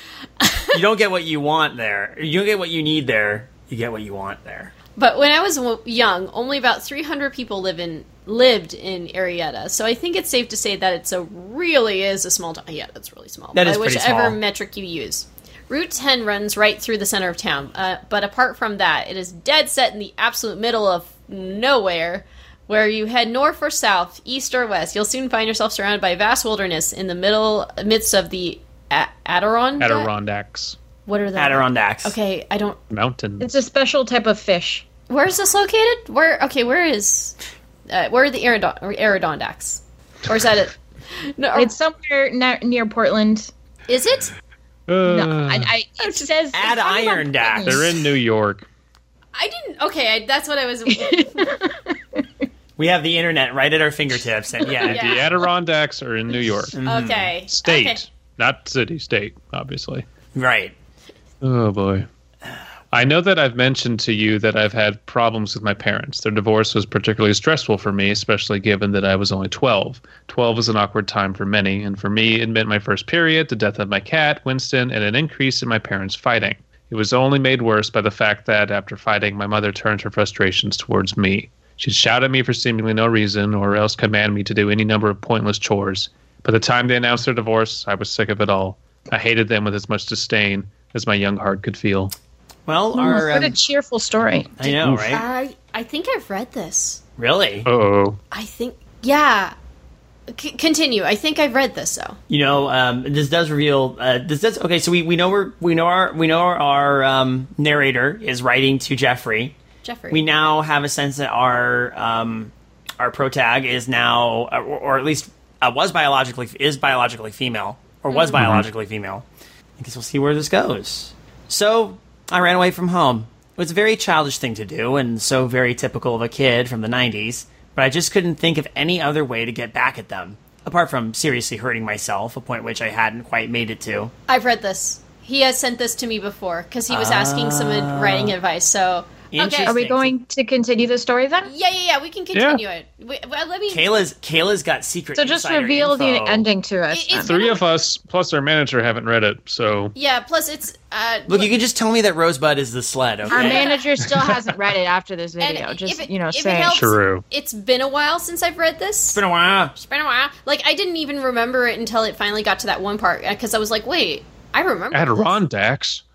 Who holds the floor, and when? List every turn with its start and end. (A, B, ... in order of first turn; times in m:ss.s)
0:00.4-0:00.8 A
0:00.7-0:04.7 B
0:05.0-0:30.1 A
0:13.6-0:14.4 B
0:29.8-0:30.8 C
0:31.1-0:32.8 A
0:31.4-0:32.1 B
0:32.9-0:33.5 C
0:33.4-0:34.8 D
0:35.1-0:37.4 A
0:37.9-0:41.7 A
0:41.6-0:43.5 D
0:43.9-0:44.4 A
0:44.9-0:45.7 C
0:45.0-0:47.8 D
0:46.0-0:47.5 A
0:46.5-0:48.0 B
0:47.7-0:48.7 C
0:49.4-0:51.7 A
0:50.9-0:52.2 D
0:52.8-0:55.3 B
0:54.8-0:55.3 A
0:54.8-0:56.8 C
0:56.7-0:57.3 B
0:56.8-0:58.0 A
0:57.5-1:00.0 C
1:00.4-1:00.7 B
1:01.4-1:02.1 C
1:02.9-1:32.1 C
1:32.7-1:33.6 B
1:33.0-1:34.6 D
1:34.6-1:35.2 B
1:34.7-1:35.2 C
1:35.1-1:37.0 A
1:37.2-1:37.7 B
1:37.6-1:38.2 C
1:38.3-1:39.5 A
1:40.3-1:42.2 A
1:42.3-1:49.6 B
1:49.8-1:50.2 A
1:50.1-1:59.2 B
1:58.1-1:58.5 A
1:58.4-1:58.7 C
1:59.8-2:14.1 B
2:14.3-2:19.8 A
2:16.9-2:18.4 B
2:19.3-2:20.1 B
2:19.7-2:21.5 D
2:21.4-2:24.0 A
2:22.4-2:22.6 C
2:23.7-2:26.5 B
2:25.2-2:27.3 D
2:26.9-2:27.6 A
2:27.2-2:30.0 C
2:30.0-2:31.5 A
2:31.3-2:33.7 B
2:33.3-2:33.9 A
2:33.3-2:36.8 D
2:34.0-2:34.3 C
2:35.4-2:39.2 A
2:36.7-2:37.2 C
2:39.2-2:39.7 B
2:39.8-2:45.4 A
2:44.9-2:46.0 C